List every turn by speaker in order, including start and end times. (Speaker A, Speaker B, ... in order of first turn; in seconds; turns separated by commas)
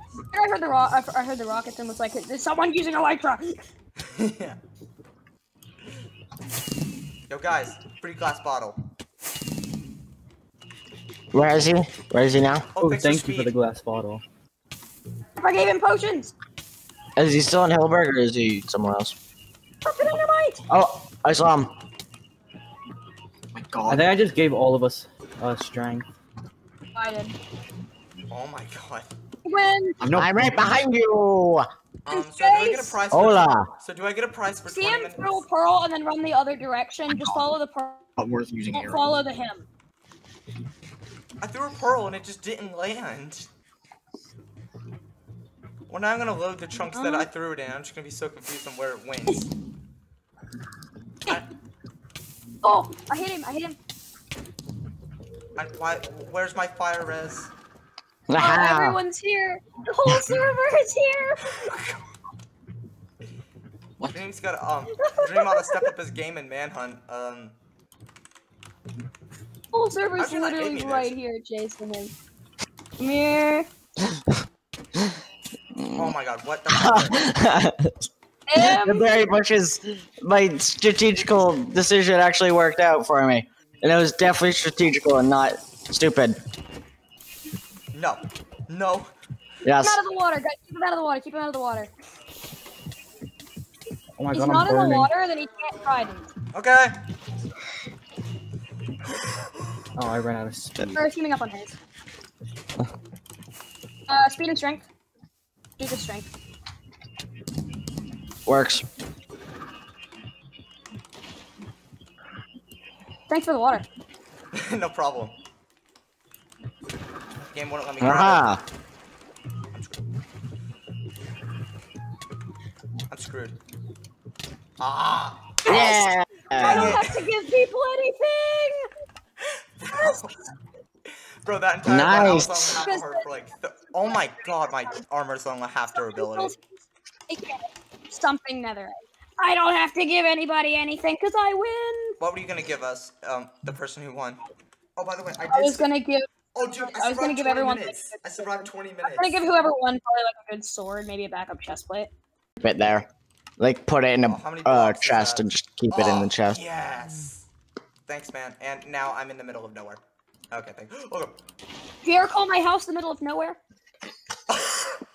Speaker A: 0.3-3.6, Speaker B: 4.0-4.6, Speaker B: 7.3-8.8, Speaker C: 11.3-12.7, Speaker B: 12.8-13.5, Speaker D: 12.8-14.2, Speaker A: 15.4-16.3, Speaker C: 17.2-19.2, Speaker A: 19.9-20.6, Speaker C: 20.7-21.7, Speaker E: 23.5-24.2, Speaker D: 23.9-26.1, Speaker A: 26.9-27.4, Speaker B: 28.3-29.1, Speaker A: 29.4-30.0, Speaker E: 30.0-30.7, Speaker C: 30.1-31.7, Speaker B: 32.0-35.4, Speaker A: 32.1-33.0, Speaker C: 33.1-33.7, Speaker A: 34.7-38.0, Speaker E: 37.1-37.4, Speaker E: 38.2-39.2, Speaker A: 38.7-39.7, Speaker B: 41.4-43.5, Speaker B: 45.9-49.5, Speaker A: 46.9-47.3, Speaker A: 52.6-53.8, Speaker B: 55.6-57.5, Speaker C: 58.3-59.0, Speaker A: 58.4-61.7, Speaker B: 61.5-62.0, Speaker B: 64.1-67.6, Speaker A: 65.0-65.9, Speaker A: 69.7-72.1, Speaker B: 70.2-71.1, Speaker A: 73.0-73.7, Speaker C: 75.8-76.1, Speaker B: 75.9-77.2, Speaker C: 76.7-78.0, Speaker A: 78.5-79.1, Speaker C: 78.6-86.4, Speaker B: 87.9-89.1, Speaker C: 89.6-90.0, Speaker A: 89.8-91.9, Speaker D: 94.2-95.1, Speaker A: 94.3-96.3, Speaker B: 96.5-97.0, Speaker D: 100.0-101.0, Speaker A: 100.9-101.8, Speaker A: 104.1-104.9, Speaker A: 105.8-106.3, Speaker C: 108.5-108.8, Speaker A: 113.3-113.9, Speaker B: 114.5-115.3, Speaker B: 117.4-118.5, Speaker C: 118.0-118.6, Speaker B: 119.7-120.0, Speaker B: 123.1-123.6, Speaker B: 124.8-125.6, Speaker A: 125.6-128.9, Speaker C: 125.7-127.0, Speaker B: 126.6-127.2, Speaker B: 129.8-130.3, Speaker A: 129.9-130.2, Speaker B: 131.1-136.5, Speaker C: 131.9-132.8, Speaker A: 132.8-133.2, Speaker A: 136.0-136.6, Speaker A: 137.3-142.2, Speaker B: 142.2-144.4, Speaker B: 145.0-145.9, Speaker A: 145.5-152.1, Speaker B: 146.6-149.4, Speaker C: 152.6-153.1, Speaker C: 153.6-156.6, Speaker B: 154.2-157.5, Speaker B: 158.1-160.0, Speaker B: 160.5-161.3, Speaker A: 162.0-163.6, Speaker B: 164.5-165.0